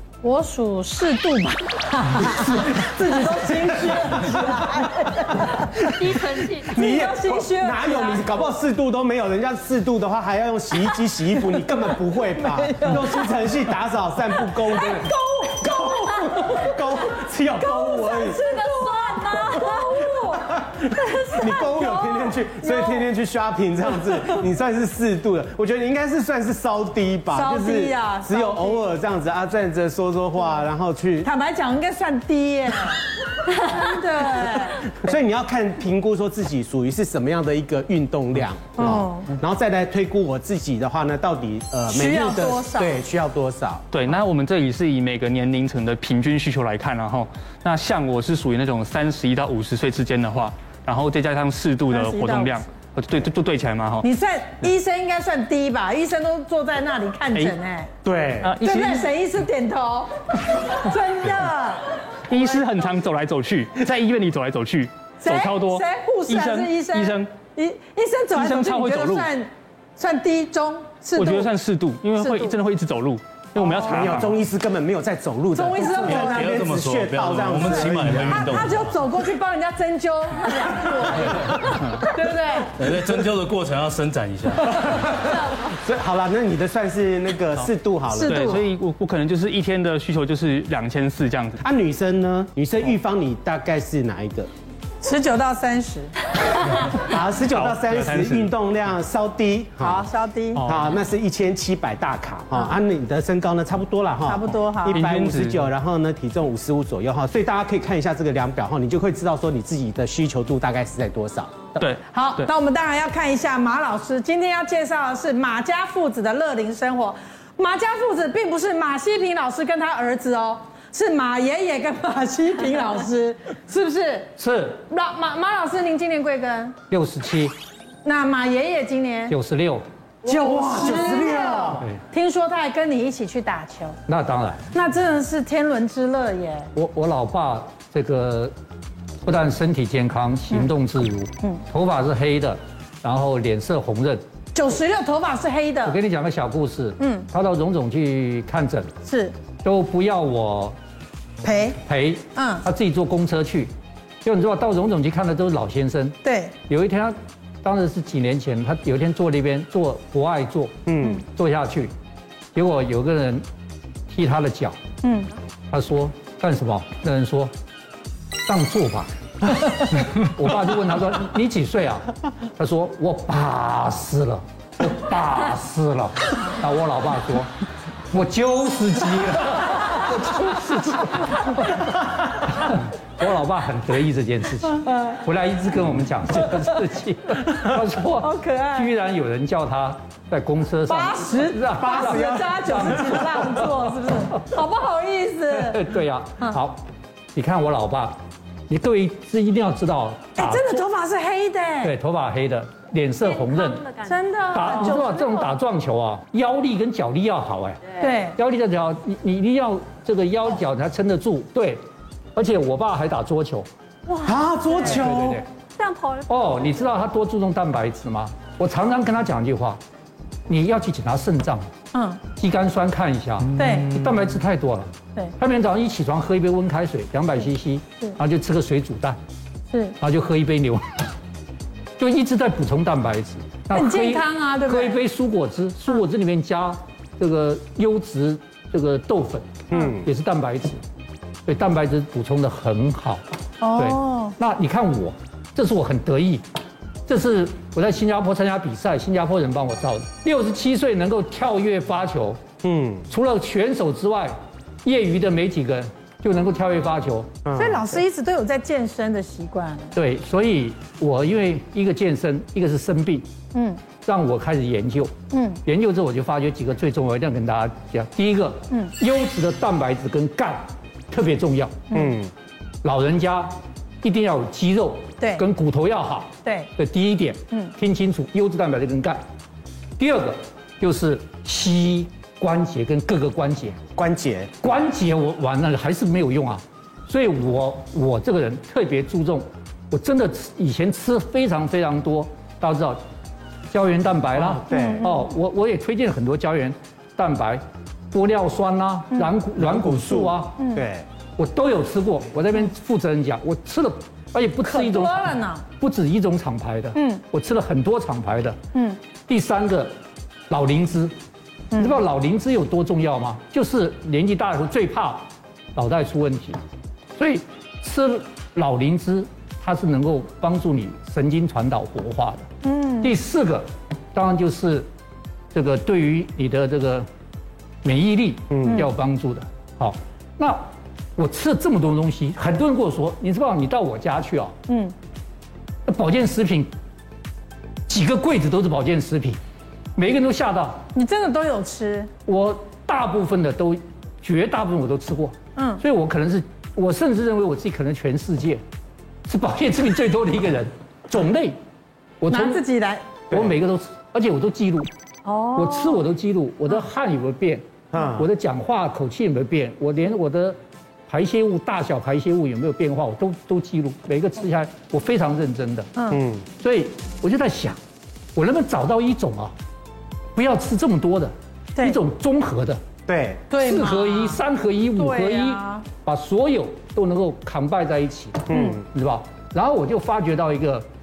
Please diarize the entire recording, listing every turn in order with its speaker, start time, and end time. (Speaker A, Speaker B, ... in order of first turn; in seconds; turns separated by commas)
Speaker A: 0.2-5.9, Speaker B: 2.2-18.4, Speaker C: 6.0-6.7, Speaker A: 6.7-8.5, Speaker A: 12.7-13.3, Speaker A: 14.5-16.6, Speaker A: 17.6-23.1, Speaker B: 20.3-31.3, Speaker A: 27.3-28.9, Speaker A: 31.2-34.8, Speaker B: 34.9-43.8, Speaker A: 38.8-39.3, Speaker A: 41.9-43.0, Speaker D: 43.9-54.1, Speaker A: 51.9-52.6, Speaker A: 54.0-57.9, Speaker B: 58.0-58.5, Speaker D: 58.4-59.1, Speaker A: 58.6-62.7, Speaker D: 62.3-67.3, Speaker A: 65.2-71.5, Speaker D: 68.3-69.3, Speaker D: 71.2-74.4, Speaker A: 72.2-72.5, Speaker B: 73.5-78.6, Speaker A: 75.5-76.6, Speaker E: 76.0-79.0, Speaker A: 77.7-82.8, Speaker E: 81.2-81.7, Speaker E: 82.7-85.4, Speaker B: 85.7-88.6, Speaker D: 88.2-91.6, Speaker A: 88.2-88.5, Speaker B: 91.6-94.5, Speaker A: 95.0-96.1, Speaker B: 96.9-100.1, Speaker D: 97.4-98.5, Speaker A: 99.8-100.6, Speaker D: 100.5-100.9, Speaker B: 100.6-111.7, Speaker A: 104.3-105.0, Speaker D: 104.9-105.7, Speaker D: 111.8-112.5, Speaker A: 112.1-124.3, Speaker F: 124.4-124.8, Speaker A: 124.9-126.7, Speaker F: 126.9-127.5, Speaker A: 128.0-129.3, Speaker F: 129.3-129.8, Speaker B: 130.2-131.9, Speaker A: 130.2-134.0, Speaker F: 134.1-134.6, Speaker A: 134.7-136.7, Speaker F: 136.7-138.5, Speaker F: 139.2-144.2, Speaker A: 144.5-146.0, Speaker F: 145.8-148.9, Speaker A: 147.0-147.3, Speaker A: 149.0-149.3, Speaker F: 149.6-150.8, Speaker A: 151.4-151.8, Speaker F: 151.8-153.7, Speaker A: 152.3-152.7, Speaker F: 154.2-156.2, Speaker A: 156.2-156.5, Speaker F: 156.7-161.9, Speaker B: 160.8-161.2, Speaker F: 162.5-163.4, Speaker F: 164.1-164.8, Speaker A: 165.0-165.3, Speaker F: 165.7-167.5, Speaker F: 168.5-177.5, Speaker F: 178.1-193.8, Speaker A: 188.2-188.9, Speaker A: 190.9-195.9, Speaker B: 191.7-193.2, Speaker F: 195.5-196.8, Speaker F: 197.3-200.8, Speaker A: 200.3-201.9, Speaker F: 201.8-203.8, Speaker C: 203.2-204.2, Speaker A: 204.0-205.5, Speaker F: 204.5-207.8, Speaker A: 208.0-208.4, Speaker F: 208.3-211.8, Speaker F: 212.3-213.7, Speaker B: 214.2-215.4, Speaker F: 214.8-215.4, Speaker C: 215.8-216.6, Speaker F: 216.3-219.8, Speaker F: 220.5-221.7, Speaker A: 221.9-222.2, Speaker F: 222.3-229.2, Speaker A: 223.6-224.0, Speaker A: 229.7-230.0, Speaker F: 230.0-230.9, Speaker F: 232.0-240.8, Speaker A: 233.7-235.0, Speaker B: 239.7-240.1, Speaker F: 241.4-243.2, Speaker A: 243.6-244.3, Speaker F: 243.8-246.4, Speaker F: 247.1-252.4, Speaker B: 252.6-253.1, Speaker F: 253.1-257.3, Speaker B: 257.4-257.8, Speaker A: 257.6-259.9, Speaker F: 259.9-263.3, Speaker A: 263.5-263.8, Speaker F: 264.0-265.1, Speaker A: 265.3-265.6, Speaker F: 265.6-271.8, Speaker A: 271.9-272.1, Speaker B: 271.9-272.3, Speaker F: 272.8-279.2, Speaker A: 275.2-275.4, Speaker F: 280.0-283.8, Speaker B: 283.9-284.6, Speaker F: 284.6-293.0, Speaker F: 293.7-300.6, Speaker B: 294.3-295.1, Speaker A: 294.7-295.2, Speaker B: 299.5-301.0, Speaker F: 301.4-308.6, Speaker A: 304.6-305.6, Speaker A: 306.9-307.2, Speaker A: 308.7-309.0, Speaker F: 309.2-309.9, Speaker F: 310.5-311.1, Speaker A: 311.7-312.0, Speaker F: 311.8-316.6, Speaker F: 317.2-322.5, Speaker A: 322.6-323.1, Speaker F: 323.0-324.9, Speaker F: 325.5-327.1, Speaker F: 327.8-330.6, Speaker B: 328.5-328.9, Speaker A: 328.6-328.9, Speaker F: 331.2-334.5, Speaker A: 334.7-334.9, Speaker F: 335.9-336.7, Speaker F: 337.9-339.4, Speaker F: 339.9-340.8, Speaker A: 340.9-342.1, Speaker F: 342.2-348.6, Speaker A: 345.6-345.8, Speaker F: 349.3-351.6, Speaker F: 352.2-352.6, Speaker A: 352.3-353.0, Speaker B: 353.3-353.6, Speaker F: 353.3-354.9, Speaker A: 355.2-356.1, Speaker F: 355.5-360.6, Speaker B: 357.9-358.3, Speaker F: 361.1-365.9, Speaker A: 365.9-366.2, Speaker B: 366.1-366.5, Speaker F: 366.6-367.8, Speaker F: 368.4-369.5, Speaker F: 370.4-372.8, Speaker B: 373.1-373.4, Speaker A: 373.5-374.4, Speaker F: 373.6-380.9, Speaker A: 374.9-375.9, Speaker B: 378.5-378.8, Speaker A: 378.5-378.8